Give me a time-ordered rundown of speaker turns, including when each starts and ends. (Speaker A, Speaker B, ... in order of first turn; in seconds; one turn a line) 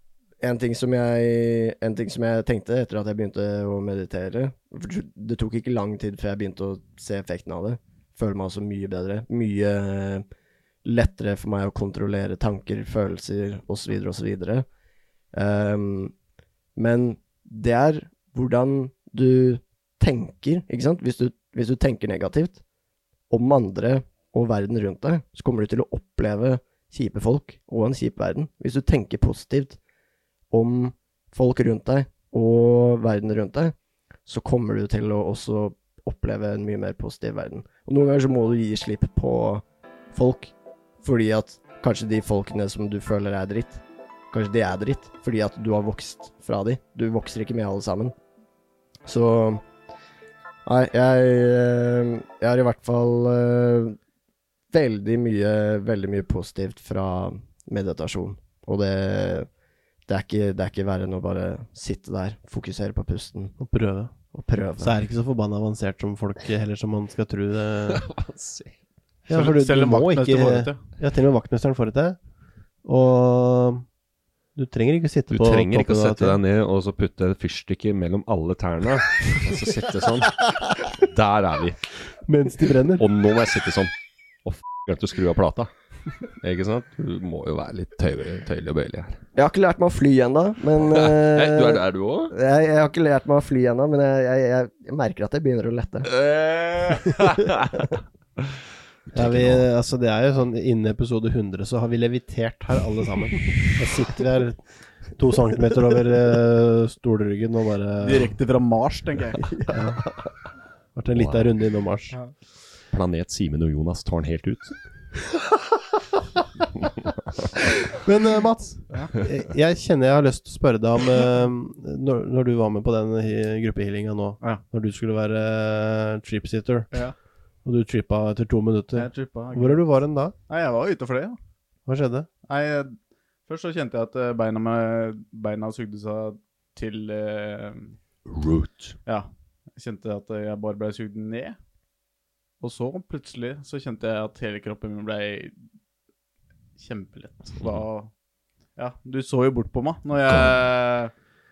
Speaker A: 0.4-10.2
Speaker A: 10.8-14.7
Speaker A: 15.3-16.1
Speaker A: 16.8-22.6
Speaker A: 23.3-29.8
Speaker A: 30.5-33.7
Speaker A: 34.2-48.1
Speaker A: 49.0-49.6
Speaker A: 50.6-54.0
Speaker A: 54.7-59.5
Speaker A: 60.1-63.5
Speaker B: 63.6-64.1
Speaker A: 64.3-64.9
Speaker B: 64.8-68.0
Speaker C: 67.9-68.7
Speaker B: 69.3-72.2
Speaker D: 69.3-70.8
Speaker B: 72.8-73.8
Speaker B: 74.5-76.4
Speaker C: 75.3-81.8
Speaker B: 82.3-83.0
Speaker C: 83.0-83.9
Speaker C: 84.4-85.7
Speaker C: 86.4-89.2
Speaker A: 89.3-96.1
Speaker C: 90.8-92.3
Speaker C: 96.1-97.8
Speaker C: 99.1-99.7
Speaker B: 99.1-104.6
Speaker B: 105.1-108.3
Speaker D: 108.0-109.6
Speaker B: 109.7-110.0
Speaker B: 110.9-112.2
Speaker C: 111.1-111.5
Speaker C: 112.9-114.7
Speaker B: 117.9-126.9
Speaker B: 127.6-130.3
Speaker D: 128.9-129.8
Speaker D: 130.5-131.4
Speaker B: 131.8-132.3
Speaker D: 132.5-132.9
Speaker D: 133.5-137.9
Speaker C: 138.3-139.0
Speaker D: 139.1-141.6
Speaker D: 142.6-145.6
Speaker D: 146.8-148.1
Speaker D: 148.8-151.1
Speaker C: 150.3-150.6